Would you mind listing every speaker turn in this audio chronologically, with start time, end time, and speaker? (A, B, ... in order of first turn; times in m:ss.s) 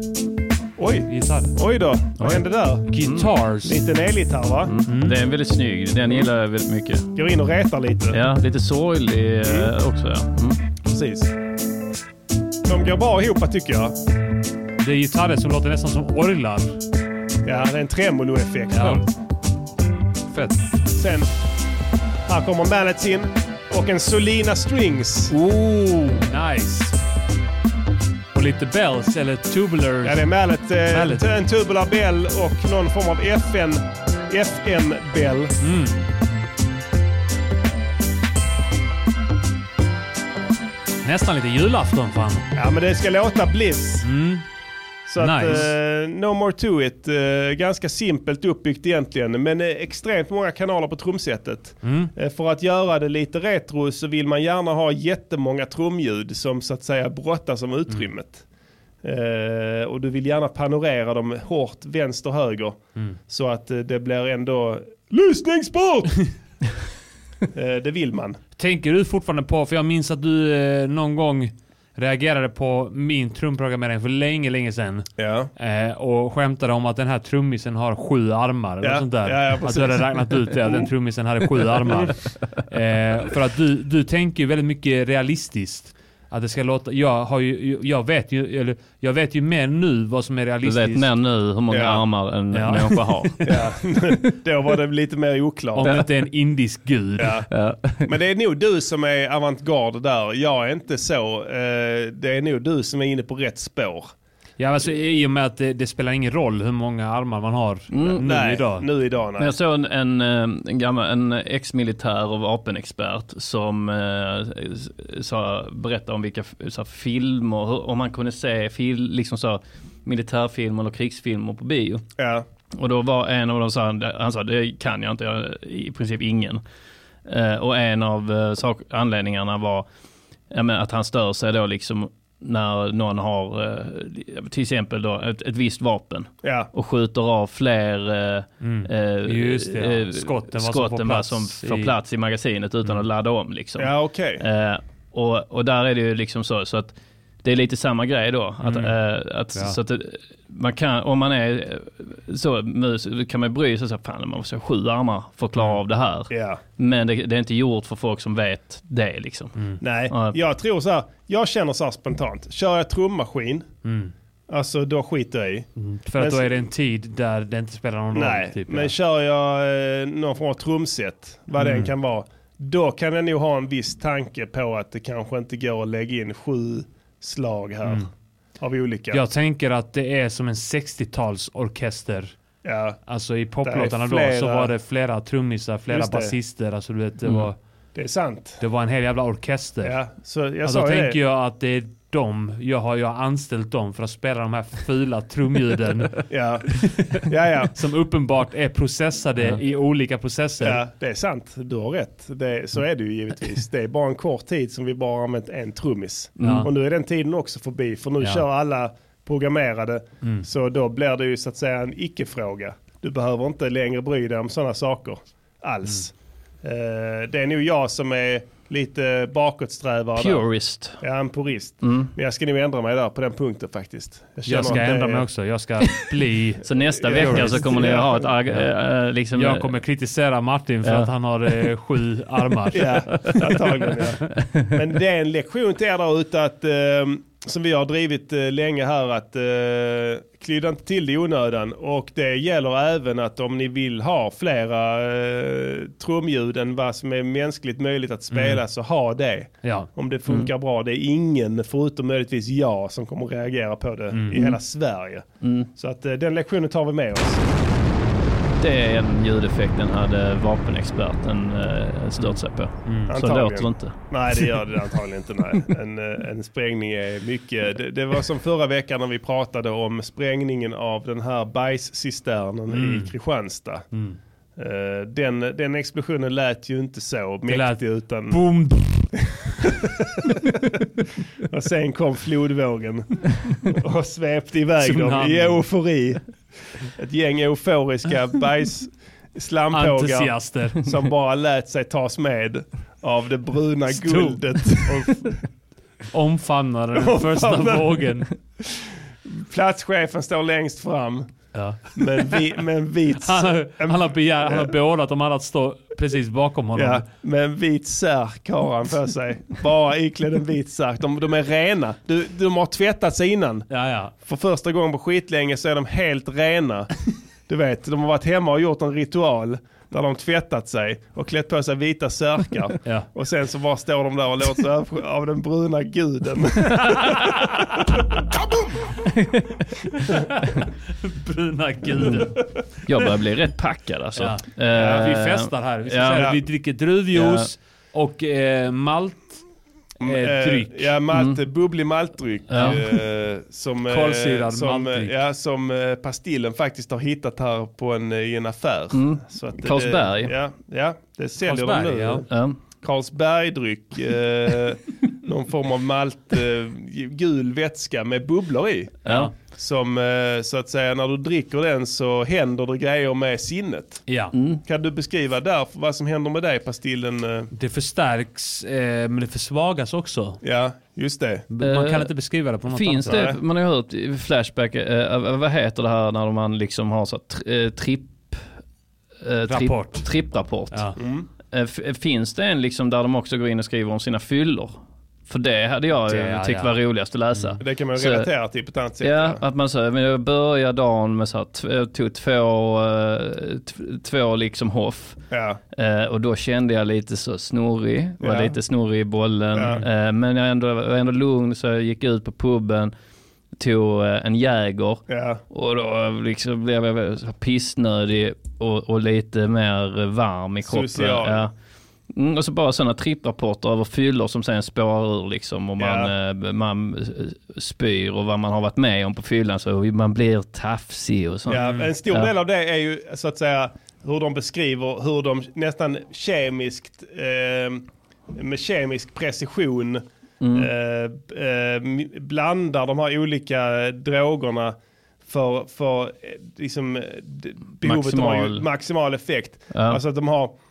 0:00.8-0:02.9 A
0:01.1-0:01.5 B
0:02.2-0:03.3 C
0:02.9-0:03.8 B
0:03.6-0:04.7 A
0:04.7-0:07.1 C
0:04.9-0:05.2 B
0:07.2-0:08.2 A
0:08.1-0:10.6 C
0:09.4-0:09.7 A
0:10.8-0:11.3 A
0:12.7-0:14.0 A
0:14.8-0:16.8 B
0:17.4-0:19.1 A
0:18.7-0:19.0 B
0:20.3-0:20.6 B
0:20.9-0:21.3 A
0:22.3-0:26.2 A
0:25.3-0:27.0 B
0:28.3-0:31.3 B
0:30.0-0:35.6 A
0:35.6-0:36.0 B
0:41.0-0:42.5 B
0:42.6-0:44.1 A
0:44.0-0:44.4 B
0:45.1-0:58.4 A
0:45.2-0:45.7 B
0:51.8-0:52.1 B
0:59.0-1:06.2 A
1:07.5-1:08.4 A
1:08.6-1:31.1 B
1:15.2-1:15.5 A
1:18.8-1:20.9 A
1:30.6-1:33.6 C
1:31.7-1:32.0 A
1:32.5-1:33.6 B
1:33.4-1:36.0 A
1:35.8-1:37.4 B
1:37.2-1:37.5 A
1:37.5-1:38.1 C
1:38.0-1:44.1 A
1:44.6-1:48.9 B
1:47.9-1:48.3 C
1:48.2-1:49.5 A
1:49.4-2:02.1 C
2:02.2-2:02.4 A
2:02.7-2:06.6 C
2:07.3-2:09.9 C
2:10.5-2:39.6 C
2:16.4-2:16.7 A
2:18.6-2:21.9 B
2:23.8-2:24.4 A
2:28.6-2:29.0 B
2:36.3-2:36.6 A
2:39.8-2:43.7 A
2:40.1-2:40.4 C
2:43.8-2:44.1 B
2:44.5-2:46.7 A
2:45.8-2:48.9 B
2:48.1-2:59.2 A
2:51.6-2:51.9 B
2:59.1-3:02.4 B
3:02.6-3:03.0 A
3:03.1-3:07.6 B
3:03.6-3:04.7 A
3:05.9-3:06.3 A
3:07.2-3:07.5 C
3:08.0-3:08.6 A
3:08.6-3:10.0 B
3:09.8-3:11.2 A
3:10.6-3:16.2 B
3:16.3-3:17.7 A
3:16.8-3:17.2 B
3:17.7-3:20.8 B
3:20.6-3:40.5 A
3:26.4-3:26.7 C
3:26.4-3:26.7 B
3:40.2-3:41.0 C
3:41.0-3:45.3 A
3:41.8-3:42.1 C
3:44.5-3:53.4 B
3:46.6-3:49.7 C
3:47.0-3:48.3 A
3:50.8-3:51.1 C
3:52.7-3:53.5 C
3:52.7-4:17.4 A
4:08.3-4:08.6 B
4:09.6-4:09.9 B
4:14.1-4:14.6 B
4:15.4-4:15.7 C
4:18.6-4:24.7 C
4:22.2-4:23.1 B
4:23.1-4:33.9 A
4:32.7-4:33.2 B
4:33.9-4:34.2 B
4:34.6-4:38.4 A
4:37.5-4:39.4 B
4:41.4-4:55.3 A
4:44.8-4:45.7 B
4:49.7-4:50.8 B
4:53.9-4:58.3 B
4:57.0-4:58.6 A
4:59.3-5:04.7 A
5:01.5-5:02.5 B
5:03.2-5:07.1 B
5:06.8-5:13.7 A
5:13.7-5:14.1 B
5:14.2-5:27.6 A
5:27.0-5:27.4 B
5:29.0-5:30.0 C
5:31.0-5:32.6 B
5:32.9-5:36.3 C
5:34.2-5:39.4 B
5:34.7-5:35.1 A
5:36.1-5:36.4 A
5:37.1-5:37.5 C
5:40.0-6:04.1 A
5:40.0-5:40.9 B
5:41.1-5:41.4 C
5:42.5-5:42.8 C
5:42.6-5:42.8 B
5:43.9-5:45.2 B
5:48.9-5:50.4 C
5:51.4-5:52.2 B
5:52.3-5:52.6 C
5:59.0-5:59.3 C
5:59.1-5:59.3 B
6:04.1-6:04.4 B
6:04.3-6:04.6 C
6:04.6-6:07.5 A
6:07.5-6:10.4 B
6:10.4-6:11.4 A
6:11.5-6:13.3 B
6:11.6-6:18.5 C
6:13.1-6:13.4 A
6:19.2-6:21.0 C
6:19.5-6:20.2 B
6:20.7-6:21.0 B
6:21.0-6:21.3 A
6:21.5-6:28.3 C
6:26.1-6:26.8 B
6:27.3-6:27.6 B
6:27.6-6:29.4 A
6:29.0-6:42.9 C
6:35.3-6:35.6 A
6:38.2-6:38.6 A
6:39.5-6:39.8 A
6:43.6-6:51.5 C
6:45.1-6:45.4 A
6:50.6-6:51.5 A
6:52.1-7:02.3 C
6:55.8-6:56.1 A
7:01.5-7:20.5 A
7:01.5-7:01.9 B
7:10.4-7:10.7 C
7:17.8-7:18.7 C
7:19.7-7:20.0 C